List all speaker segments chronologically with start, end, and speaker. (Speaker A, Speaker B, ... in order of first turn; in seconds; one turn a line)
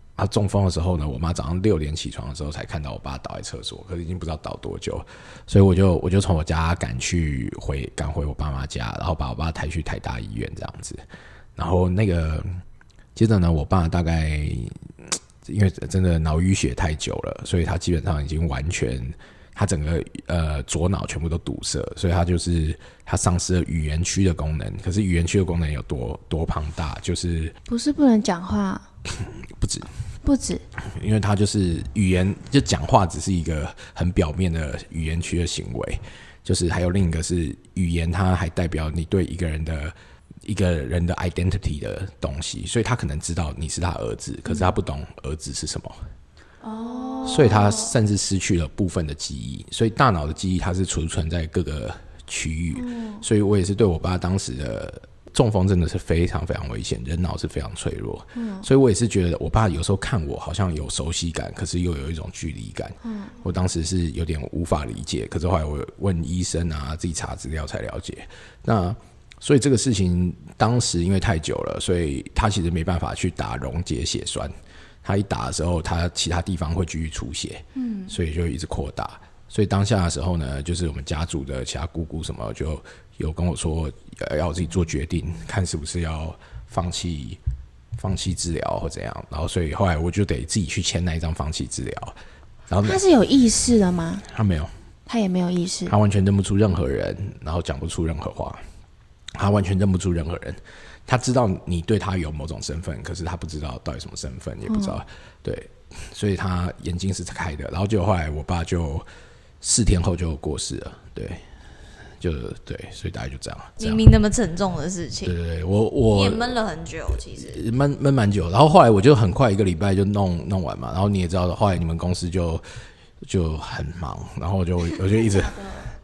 Speaker A: 0.2-11.0
Speaker A: 11.6-12.5
Speaker A: 13.2-27.5
Speaker B: 27.7-28.8
Speaker A: 29.5-29.9
Speaker B: 30.2-30.6
Speaker A: 30.9-46.0
Speaker B: 46.6-47.9
Speaker A: 47.2-74.5
Speaker B: 52.7-53.2
Speaker B: 58.4-58.6
Speaker B: 63.0-63.3
Speaker A: 75.0-87.4
Speaker B: 77.7-78.1
Speaker A: 88.0-92.2
Speaker A: 92.7-93.0
Speaker B: 92.8-94.2
Speaker A: 94.3-94.7
Speaker B: 95.1-95.9
Speaker A: 95.9-98.6
Speaker A: 99.3-109.0
Speaker B: 104.7-105.0
Speaker A: 109.6-111.4
Speaker A: 112.2-114.0
Speaker C: 113.8-115.4
Speaker A: 115.2-116.6
Speaker C: 116.1-117.6
Speaker A: 117.4-122.6
Speaker A: 123.2-125.6